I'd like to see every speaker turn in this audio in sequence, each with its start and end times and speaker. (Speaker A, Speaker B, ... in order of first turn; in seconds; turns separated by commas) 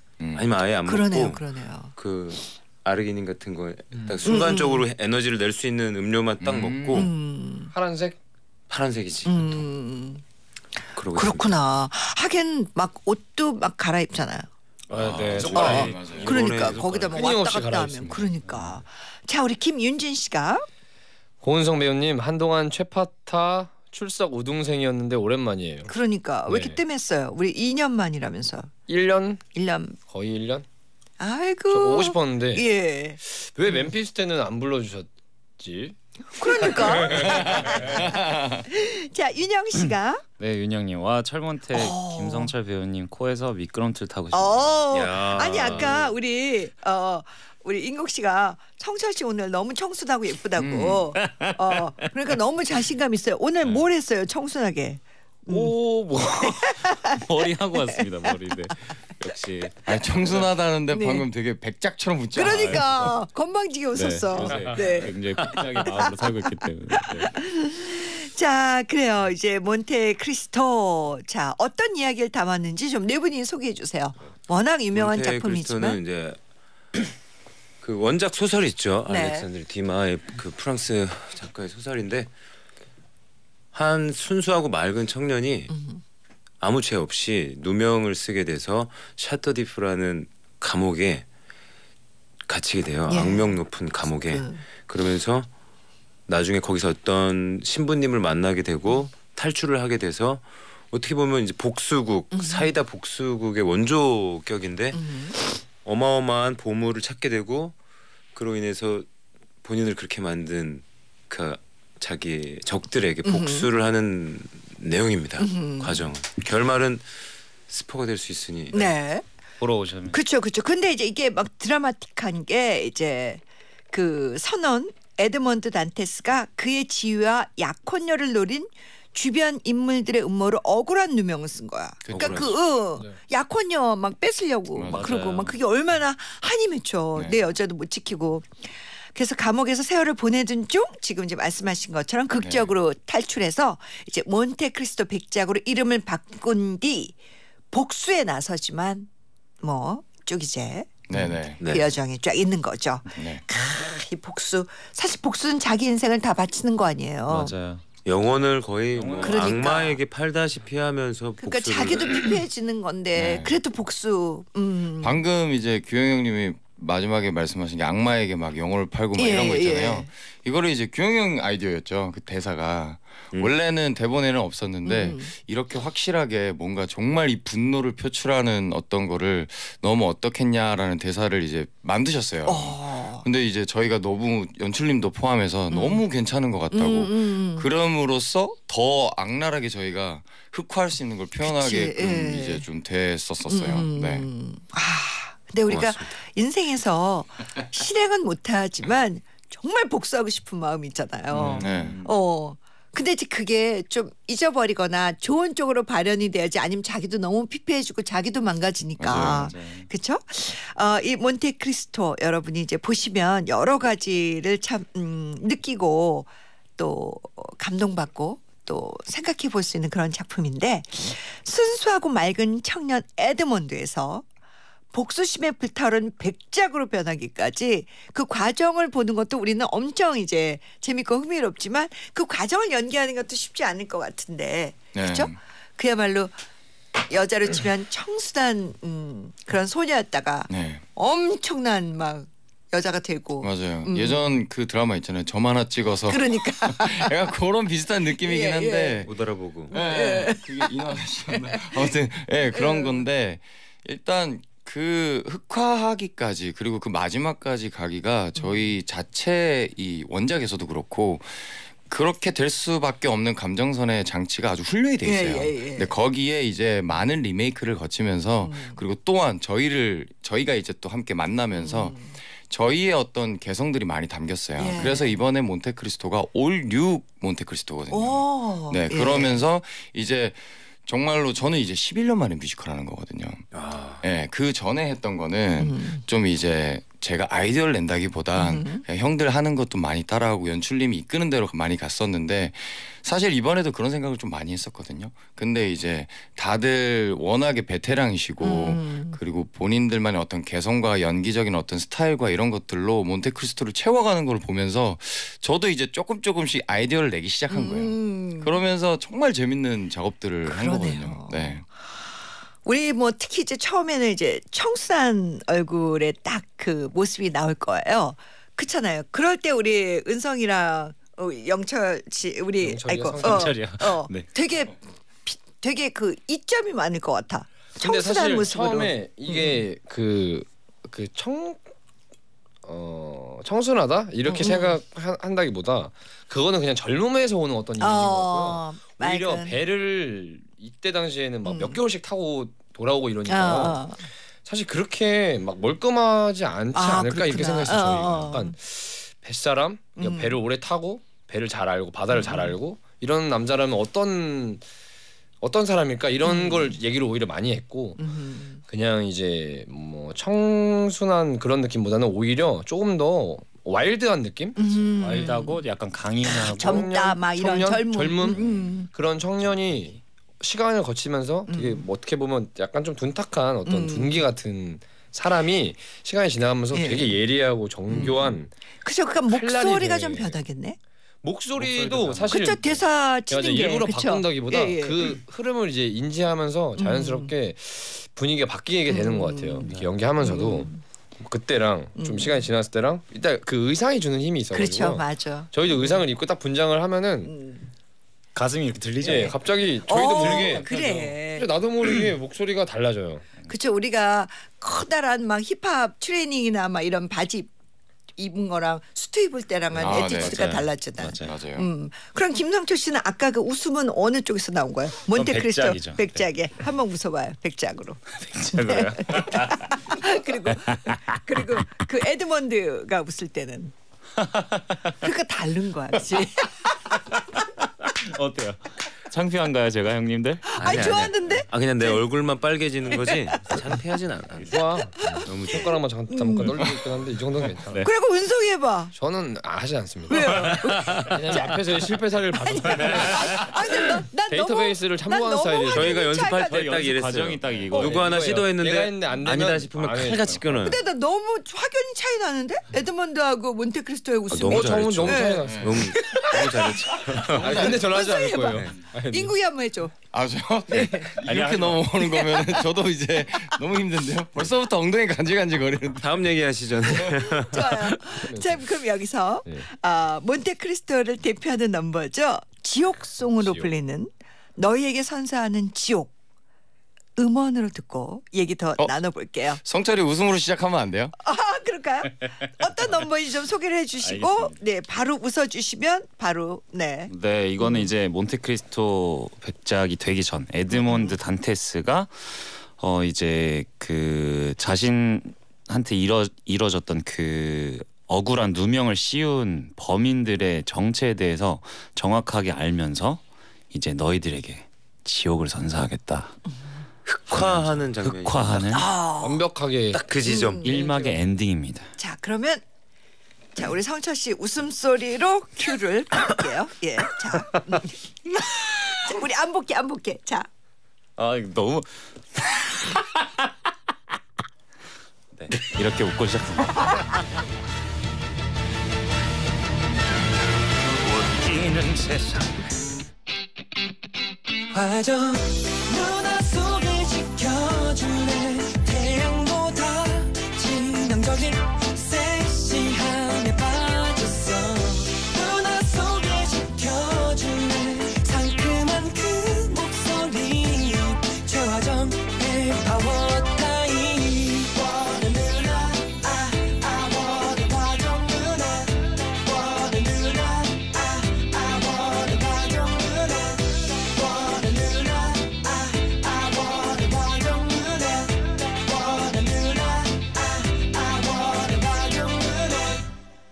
Speaker A: 0.2-0.4, Speaker B: 0.3-1.4, Speaker C: 0.8-1.9, Speaker B: 1.9-7.1, Speaker C: 4.2-4.9, Speaker A: 6.4-7.1, Speaker C: 6.9-7.7, Speaker D: 7.7-8.2, Speaker B: 8.7-9.6, Speaker C: 9.3-10.2, Speaker B: 10.9-11.5, Speaker C: 11.1-14.5, Speaker D: 14.9-15.9, Speaker A: 14.9-16.3, Speaker E: 15.0-15.9, Speaker B: 15.1-17.4, Speaker C: 15.5-20.6, Speaker D: 17.1-18.3, Speaker D: 21.4-25.9, Speaker C: 25.9-28.7, Speaker D: 26.5-26.8, Speaker D: 28.9-29.4, Speaker C: 29.5-30.0, Speaker D: 30.1-30.6, Speaker C: 31.2-33.9, Speaker D: 31.7-32.6, Speaker D: 33.2-37.5, Speaker C: 36.3-40.2, Speaker A: 37.1-38.6, Speaker E: 40.4-44.7, Speaker C: 41.7-42.5, Speaker C: 44.3-55.7, Speaker B: 44.9-46.1, Speaker A: 50.6-51.1, Speaker E: 51.2-52.0, Speaker D: 55.5-56.5, Speaker C: 56.4-57.2, Speaker E: 56.7-60.4, Speaker C: 57.7-58.7, Speaker A: 59.9-62.8, Speaker C: 60.9-61.2, Speaker C: 62.3-65.1, Speaker E: 62.4-63.1, Speaker E: 63.9-67.4, Speaker C: 65.8-76.0, Speaker B: 74.9-76.4, Speaker B: 77.8-82.3, Speaker C: 79.1-79.5, Speaker B: 83.7-85.7, Speaker C: 85.7-86.0, Speaker B: 86.6-91.2, Speaker B: 92.5-95.5, Speaker C: 93.1-94.6, Speaker B: 96.3-105.0, Speaker C: 102.3-102.7, Speaker C: 104.9-105.4, Speaker B: 105.8-107.7, Speaker B: 108.3-109.1, Speaker B: 109.6-117.1, Speaker C: 113.2-113.7, Speaker C: 115.4-116.0, Speaker B: 117.7-118.8, Speaker C: 118.7-119.2, Speaker E: 119.6-120.2, Speaker C: 120.1-147.1, Speaker A: 132.1-132.5, Speaker B: 132.1-132.5, Speaker A: 134.8-135.1, Speaker E: 134.9-135.6, Speaker A: 137.1-137.4, Speaker A: 142.4-142.7, Speaker C: 147.7-149.1, Speaker C: 149.6-151.1, Speaker A: 151.1-151.6, Speaker B: 151.6-151.9, Speaker C: 151.6-157.5, Speaker A: 153.1-153.4, Speaker E: 157.3-157.8, Speaker B: 158.0-162.4, Speaker E: 158.9-159.6, Speaker C: 159.2-160.0, Speaker C: 161.4-165.2, Speaker A: 163.1-163.6, Speaker A: 165.0-194.3, Speaker C: 169.2-170.1, Speaker C: 174.8-175.3, Speaker C: 182.4-183.2, Speaker C: 185.7-186.0, Speaker C: 186.7-187.7, Speaker C: 191.4-192.6, Speaker C: 193.5-224.2, Speaker B: 195.7-196.2, Speaker E: 201.3-202.1, Speaker A: 201.4-202.0, Speaker A: 209.0-209.5, Speaker E: 209.2-209.9, Speaker C: 224.9-236.3, Speaker A: 234.9-235.3, Speaker C: 236.9-244.4, Speaker A: 240.5-240.8, Speaker A: 243.4-249.1, Speaker C: 246.1-247.1, Speaker C: 248.2-249.1, Speaker B: 249.1-249.7, Speaker C: 249.7-250.7, Speaker A: 249.7-283.4, Speaker C: 251.3-251.9, Speaker C: 252.5-253.0, Speaker C: 258.4-258.8, Speaker C: 265.0-265.9, Speaker C: 268.4-268.8, Speaker C: 271.5-272.1, Speaker C: 274.6-275.2, Speaker C: 277.9-279.4, Speaker B: 283.5-284.0, Speaker A: 284.0-311.6, Speaker C: 285.6-286.0, Speaker C: 288.4-288.8, Speaker C: 298.4-299.2, Speaker C: 307.5-308.6, Speaker C: 310.4-311.6, Speaker C: 312.6-329.6, Speaker D: 322.6-323.6, Speaker E: 323.2-324.3, Speaker D: 327.8-331.6, Speaker D: 332.6-343.9, Speaker C: 334.2-334.8, Speaker C: 337.8-339.6, Speaker C: 341.4-341.8, Speaker C: 343.3-344.1, Speaker D: 344.4-354.6, Speaker C: 346.7-348.5, Speaker C: 350.0-350.4, Speaker C: 352.1-352.6, Speaker D: 355.4-358.0, Speaker C: 356.2-356.8, Speaker C: 358.0-358.6, Speaker D: 358.7-365.3, Speaker C: 364.6-365.6, Speaker E: 364.9-366.9, Speaker C: 366.2-368.9, Speaker D: 366.3-378.5, Speaker C: 371.5-371.9, Speaker C: 373.6-374.2, Speaker C: 376.7-377.2, Speaker C: 377.9-378.2, Speaker C: 378.8-380.8, Speaker D: 379.3-380.4, Speaker D: 381.2-382.6, Speaker E: 381.6-382.8, Speaker C: 382.3-385.2, Speaker D: 383.3-397.3, Speaker C: 386.8-387.3, Speaker C: 388.9-389.7, Speaker E: 389.6-389.9, Speaker C: 390.2-390.8, Speaker C: 391.9-392.5, Speaker C: 394.5-396.0, Speaker C: 397.2-397.7, Speaker E: 398.3-399.4, Speaker D: 399.0-400.7, Speaker C: 399.0-399.3, Speaker C: 399.9-401.5, Speaker E: 400.1-401.2, Speaker D: 401.3-403.2, Speaker C: 403.5-407.5, Speaker C: 408.2-423.7, Speaker E: 409.8-411.3, Speaker A: 409.8-410.6, Speaker A: 411.2-411.7, Speaker E: 415.1-416.2, Speaker E: 418.2-419.8, Speaker E: 420.5-421.6, Speaker E: 424.2-425.0, Speaker C: 425.0-426.8, Speaker E: 427.3-430.4, Speaker C: 430.5-432.0, Speaker B: 430.6-434.5, Speaker C: 432.9-433.6, Speaker D: 434.5-437.8, Speaker C: 434.6-436.6, Speaker B: 435.2-435.7, Speaker C: 437.8-438.9, Speaker D: 438.9-446.0, Speaker C: 440.1-441.4, Speaker C: 442.3-446.8, Speaker E: 442.9-443.3, Speaker B: 445.7-450.8, Speaker E: 446.3-448.4, Speaker D: 447.7-450.4, Speaker C: 450.5-459.9, Speaker B: 454.3-457.8, Speaker D: 454.5-456.1, Speaker A: 455.4-455.7, Speaker D: 457.3-459.3, Speaker A: 460.1-466.1, Speaker C: 460.7-461.2, Speaker E: 461.2-461.9, Speaker C: 462.0-462.7, Speaker B: 466.0-467.9, Speaker C: 467.4-476.1, Speaker D: 468.2-468.7, Speaker D: 473.4-473.7, Speaker C: 477.2-479.6, Speaker A: 479.6-481.1, Speaker C: 481.2-487.9, Speaker E: 484.0-484.6, Speaker E: 487.1-506.4, Speaker C: 490.7-491.2, Speaker B: 507.1-508.8, Speaker E: 507.3-508.9, Speaker C: 508.7-509.4, Speaker D: 509.2-510.0, Speaker B: 509.9-510.7, Speaker C: 510.2-511.1, Speaker E: 510.6-511.9, Speaker C: 512.0-512.6, Speaker C: 513.5-520.5, Speaker E: 521.2-523.5, Speaker E: 525.3-527.2, Speaker E: 531.0-532.8, Speaker F: 534.7-573.1